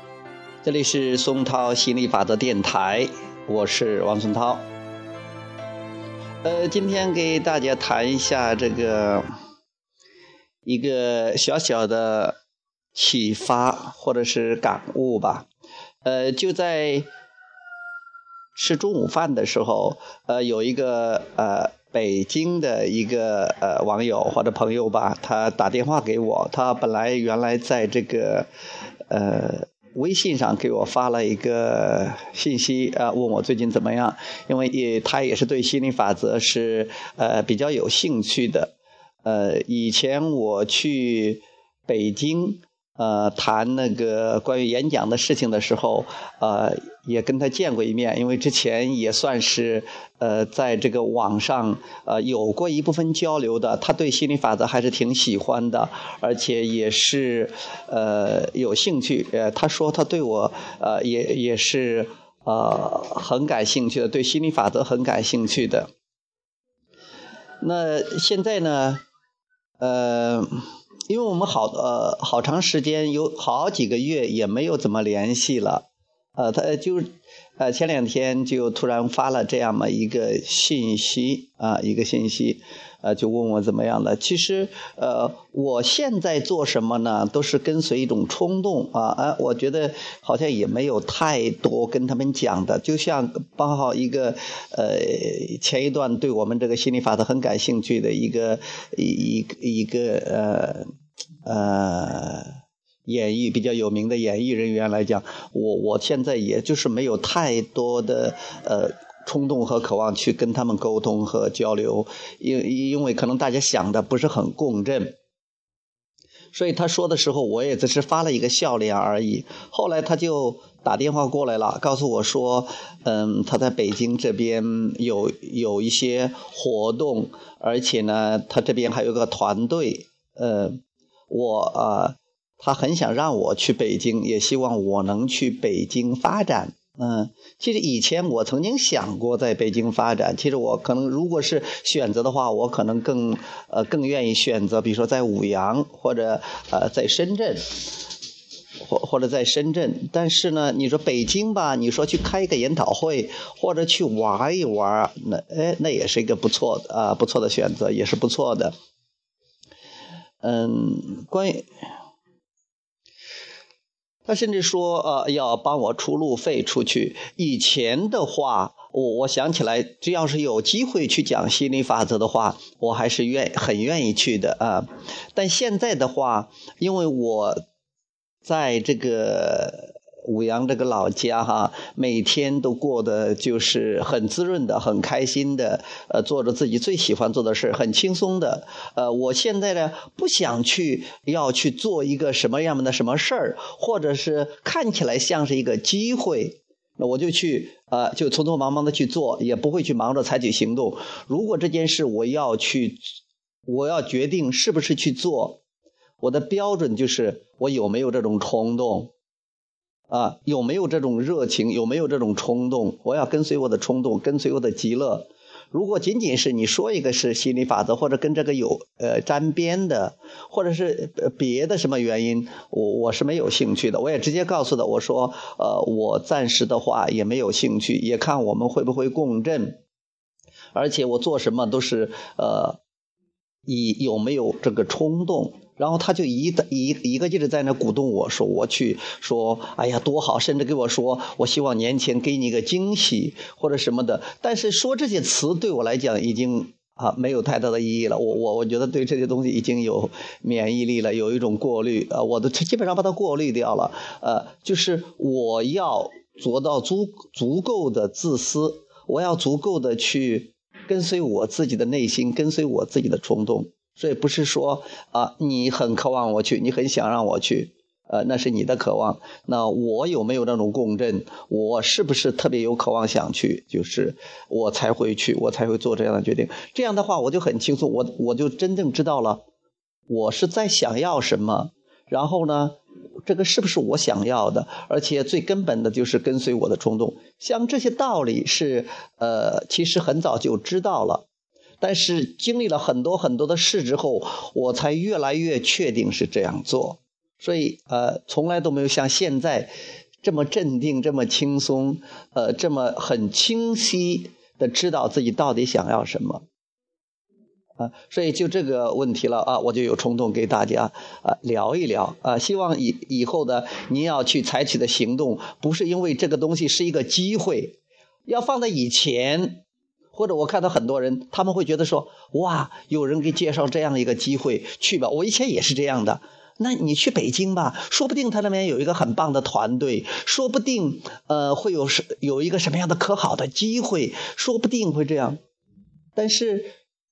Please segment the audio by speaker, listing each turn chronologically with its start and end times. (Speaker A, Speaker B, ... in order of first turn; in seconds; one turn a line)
Speaker A: 0.6-4.7
Speaker A: 6.4-9.2
Speaker A: 10.7-12.4
Speaker A: 12.9-15.5
Speaker A: 16.0-17.1
Speaker A: 18.5-28.5
Speaker A: 29.1-65.9
Speaker A: 67.6-69.0
Speaker A: 69.8-100.9
Speaker A: 101.4-102.5
Speaker A: 103.0-115.1
Speaker A: 116.5-147.7
Speaker A: 148.8-158.7
Speaker A: 160.4-161.7
Speaker A: 164.3-177.6
Speaker A: 178.4-203.1
Speaker A: 203.7-205.6
Speaker A: 206.2-209.1
Speaker A: 210.1-229.8
Speaker A: 230.7-232.8
Speaker A: 233.7-279.4
Speaker A: 280.1-291.2
Speaker A: 291.8-299.7
Speaker A: 300.2-306.4
Speaker A: 307.8-335.4
Speaker A: 336.1-336.7